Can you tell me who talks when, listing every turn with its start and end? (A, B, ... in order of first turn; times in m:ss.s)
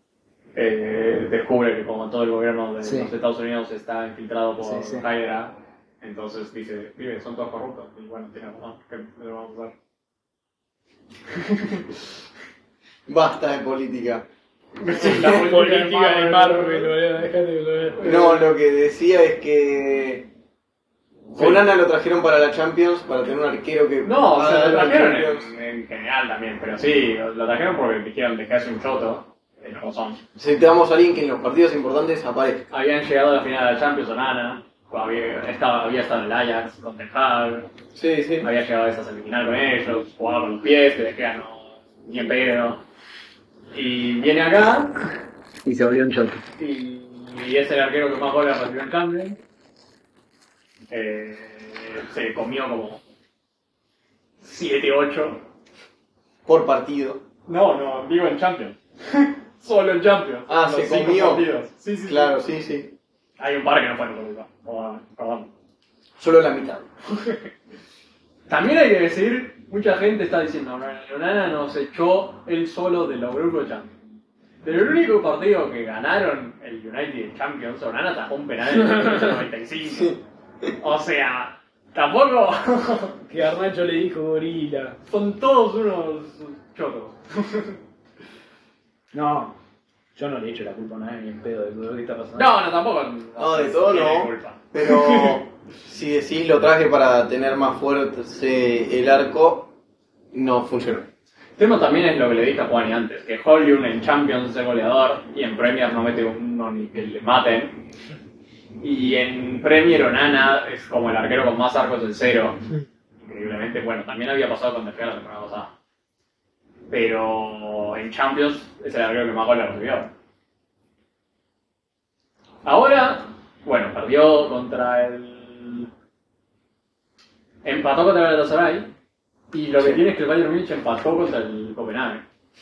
0:00.5-0:09.7 A
0:02.8-0:03.1 B
0:04.6-0:05.0 B
0:11.3-0:11.9 A
0:13.1-0:14.2 C
0:14.8-0:16.9 A
0:15.0-0:18.0 B
0:18.0-0:18.5 A
0:18.0-0:20.3 C
0:21.3-0:21.6 A
0:21.3-0:25.5 C
0:24.0-0:30.2 A
0:30.4-0:32.6 C
0:32.7-0:37.7 A
0:37.9-0:38.5 C
0:38.4-0:42.8 A
0:43.7-0:45.0 A
0:45.6-0:46.4 B
0:46.6-0:49.4 A
0:50.9-0:53.0 A
0:54.4-0:55.4 A
0:56.4-0:57.2 C
0:57.5-1:02.4 A
1:00.5-1:01.5 C
1:02.0-1:03.0 C
1:03.4-1:05.5 A
1:06.2-1:06.9 C
1:07.1-1:07.5 A
1:08.5-1:13.9 A
1:14.6-1:20.2 A
1:18.7-1:19.4 B
1:19.9-1:20.7 C
1:20.8-1:23.2 A
1:23.3-1:25.0 B
1:25.1-1:27.8 A
1:29.1-1:29.6 B
1:30.2-1:32.5 B
1:32.4-1:35.4 A
1:33.4-1:39.7 C
1:40.3-1:41.1 C
1:41.6-1:47.9 A
1:48.8-1:52.6 A
1:53.2-1:55.7 A
1:56.9-2:00.1 A
2:02.6-2:05.9 A
2:07.6-2:08.9 A
2:09.5-2:12.2 A